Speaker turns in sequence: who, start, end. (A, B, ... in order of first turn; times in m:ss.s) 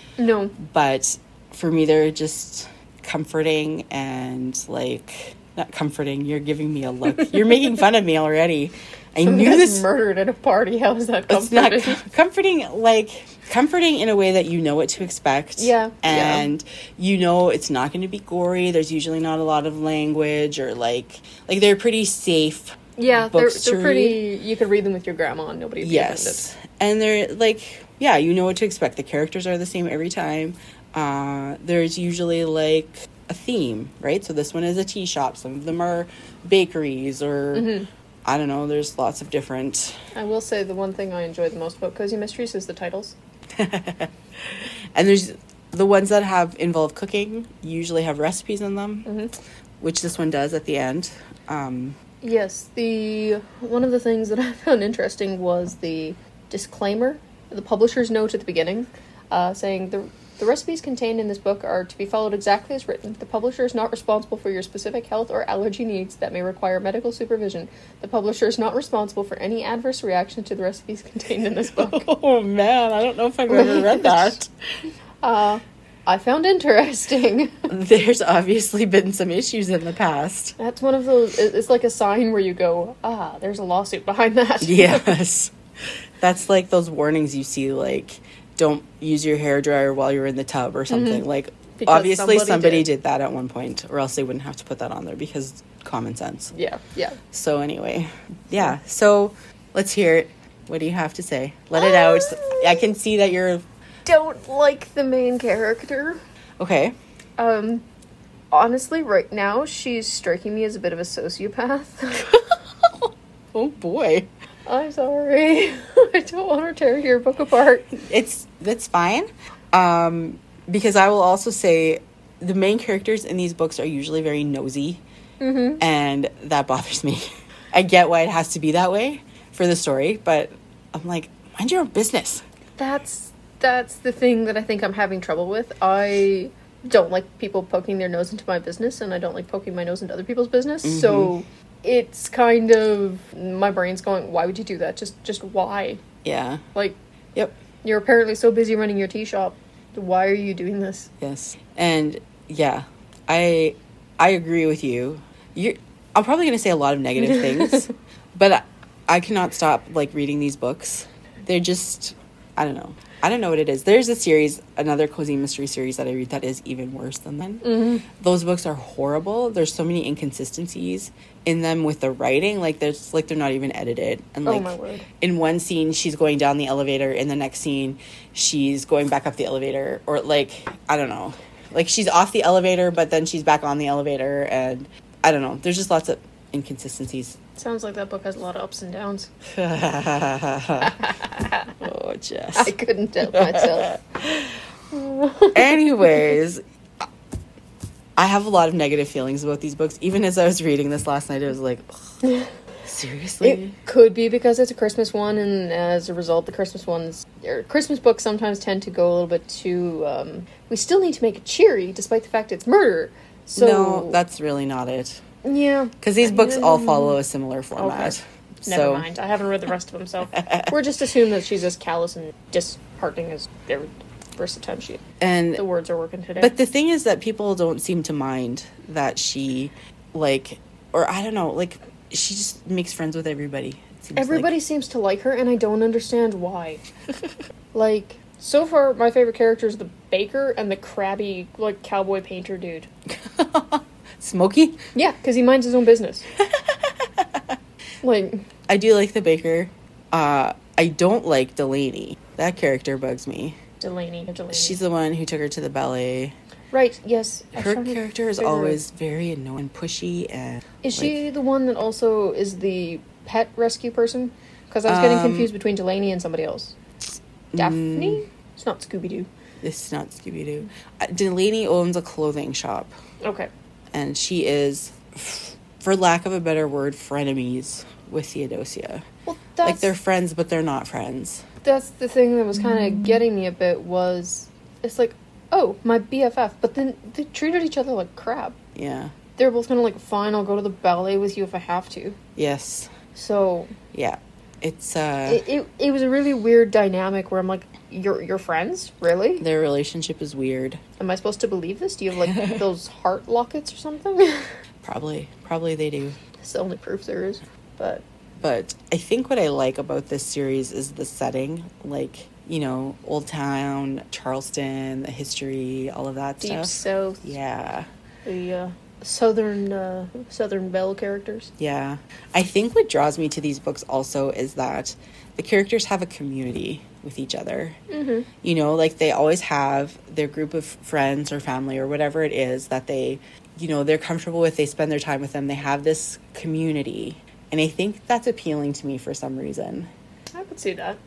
0:00.2-0:00.5 A
0:00.6-0:09.8 B
0:09.2-0:12.0 A
0:11.3-0:24.2 B
0:15.6-0:16.5 A
0:23.0-0:26.4 A
0:25.8-0:37.7 B
0:37.5-0:37.9 A
0:38.2-0:40.0 B
0:40.1-0:43.1 A
0:43.6-0:44.1 B
0:44.9-0:49.1 B
0:49.0-0:49.3 A
0:49.8-0:52.0 B
0:52.2-1:12.0 A
1:11.7-1:14.5 B
1:13.5-1:14.4 A
1:15.2-1:17.6 A
1:17.7-1:20.6 B
1:20.6-1:25.1 A
1:24.6-1:25.5 B
1:26.2-1:36.5 B
1:30.9-1:31.2 A
1:31.8-1:32.8 A
1:36.5-1:37.2 A
1:37.3-1:43.6 B
1:41.7-1:42.8 A
1:44.0-1:46.2 A
1:46.6-1:46.9 B
1:47.4-1:47.8 A
1:48.5-1:52.3 A
1:53.5-1:54.3 B
1:54.7-1:57.9 A
1:57.9-2:05.0 B
2:05.4-2:05.8 A
2:05.8-2:12.4 B
2:12.8-2:26.0 A
2:20.8-2:21.3 B
2:26.2-2:26.6 B
2:27.8-2:31.1 A
2:31.2-3:07.4 B
2:37.3-2:37.7 A
2:47.6-2:48.0 A
2:54.4-2:55.0 A
3:07.6-3:09.3 A
3:09.5-3:11.1 B
3:10.8-3:11.7 A
3:11.8-3:12.7 B
3:12.6-3:16.3 A
3:13.3-3:13.9 B
3:15.5-3:16.6 B
3:18.2-3:22.1 B
3:22.8-3:23.7 B
3:23.4-3:34.2 A
3:33.6-3:35.2 B
3:35.4-3:37.2 A
3:36.0-3:39.1 B
3:37.8-3:45.0 A
3:40.3-3:40.8 B
3:45.2-3:45.6 B
3:45.6-3:46.5 A
3:46.4-3:54.5 B
3:54.2-3:56.8 A
3:57.7-4:02.9 A
4:03.2-4:04.8 B
4:04.9-4:06.2 A
4:06.4-4:07.6 B
4:08.0-4:08.4 A
4:08.7-4:13.6 B
4:13.8-4:14.8 A
4:14.5-4:16.3 B
4:16.7-4:18.8 A
4:17.6-4:21.1 B
4:20.8-4:26.8 A
4:24.8-4:25.5 B
4:27.5-4:28.2 B
4:27.6-4:29.3 A
4:29.6-4:33.0 B
4:33.2-4:33.5 A
4:33.9-4:39.0 B
4:39.2-4:39.9 A
4:39.6-4:41.4 B
4:41.6-4:48.6 A
4:48.7-4:49.1 B
4:49.4-4:52.2 A
4:52.4-4:52.9 B
4:53.1-4:53.7 A
4:53.9-4:55.4 B
4:55.3-4:59.4 A
4:59.4-5:00.8 B
5:01.0-5:04.5 A
5:02.3-5:02.6 B
5:04.8-5:06.2 B
5:06.4-5:08.0 A
5:08.4-5:17.9 B
5:16.4-5:17.4 A
5:18.2-5:21.5 A
5:21.6-5:27.8 B
5:27.9-5:28.3 A
5:28.4-5:39.9 B
5:40.3-5:41.0 A